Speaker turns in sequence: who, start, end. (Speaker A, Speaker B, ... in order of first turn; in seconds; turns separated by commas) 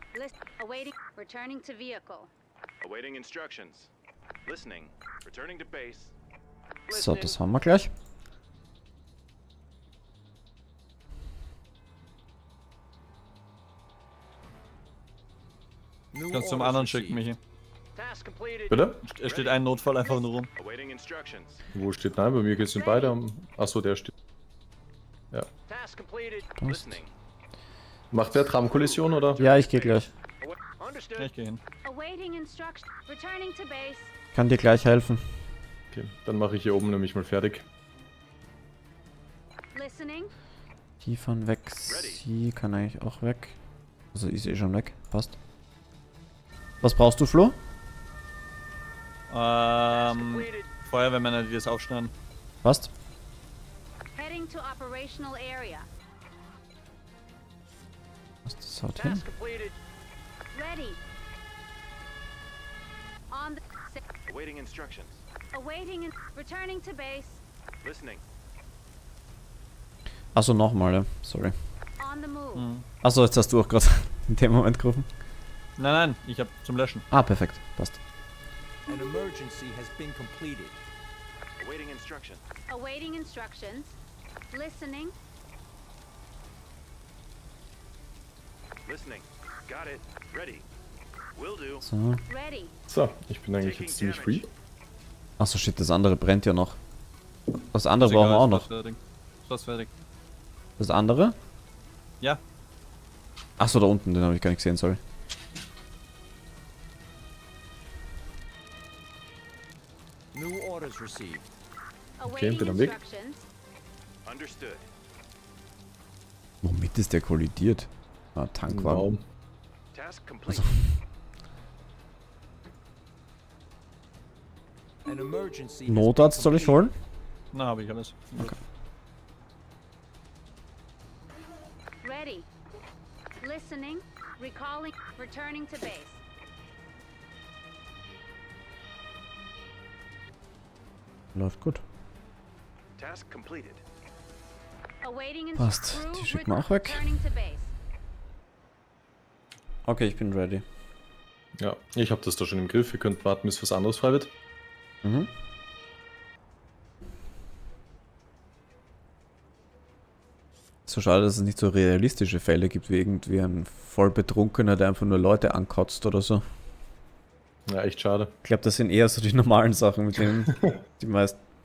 Speaker A: 0.1-2.3, Speaker B: 2.8-3.9, Speaker B: 4.5-6.1, Speaker C: 6.9-7.9, Speaker D: 16.1-17.3, Speaker E: 16.3-17.4, Speaker F: 18.0-18.7, Speaker G: 18.7-19.0, Speaker E: 19.1-20.5, Speaker B: 19.2-19.6, Speaker F: 19.5-20.5, Speaker B: 20.6-21.6, Speaker G: 21.7-24.1, Speaker A: 22.7-23.1, Speaker F: 25.7-26.4, Speaker B: 26.3-27.1, Speaker C: 26.6-27.0, Speaker G: 28.1-29.4, Speaker B: 28.6-30.0, Speaker C: 29.4-30.1, Speaker F: 30.4-31.4, Speaker E: 31.2-31.6, Speaker A: 31.8-34.1, Speaker C: 34.3-35.2, Speaker G: 35.9-37.6, Speaker A: 39.7-40.3, Speaker C: 41.0-43.6, Speaker B: 41.9-42.2, Speaker C: 44.1-45.4, Speaker C: 46.8-47.6, Speaker E: 49.3-52.1, Speaker F: 49.9-50.7, Speaker B: 50.3-50.7, Speaker C: 52.6-52.9, Speaker A: 54.1-55.9, Speaker C: 58.5-59.2, Speaker F: 59.0-59.7, Speaker A: 60.5-61.0, Speaker A: 63.3-64.0, Speaker B: 64.3-65.2, Speaker A: 65.5-67.4, Speaker B: 67.8-68.2, Speaker C: 70.3-71.5, Speaker A: 72.0-72.7, Speaker E: 72.5-72.8, Speaker C: 73.0-75.1, Speaker E: 75.8-77.0, Speaker C: 77.1-78.0, Speaker D: 78.9-80.8, Speaker B: 81.6-82.4, Speaker A: 82.7-84.0, Speaker A: 84.5-85.1, Speaker B: 88.9-90.7, Speaker B: 91.3-91.9, Speaker C: 91.8-92.2, Speaker A: 92.3-92.7, Speaker G: 92.9-94.5, Speaker B: 93.6-94.5, Speaker C: 95.4-96.8, Speaker C: 97.7-98.7, Speaker E: 98.0-99.9, Speaker F: 98.3-98.8, Speaker C: 100.8-101.3, Speaker C: 103.6-105.0, Speaker D: 110.3-111.5, Speaker A: 112.2-113.4, Speaker G: 112.2-113.0, Speaker B: 114.3-114.9, Speaker C: 116.6-119.1, Speaker G: 118.7-119.2, Speaker B: 119.9-120.8, Speaker D: 125.1-126.8, Speaker C: 125.9-127.0, Speaker E: 127.5-128.3, Speaker A: 132.0-132.5, Speaker A: 133.4-136.2, Speaker C: 141.3-141.8, Speaker B: 143.0-143.8, Speaker A: 145.0-147.7, Speaker C: 145.6-147.1, Speaker C: 149.9-150.6, Speaker G: 151.6-154.3, Speaker C: 155.0-155.3, Speaker C: 160.9-166.4, Speaker G: 167.7-168.3, Speaker C: 168.4-171.4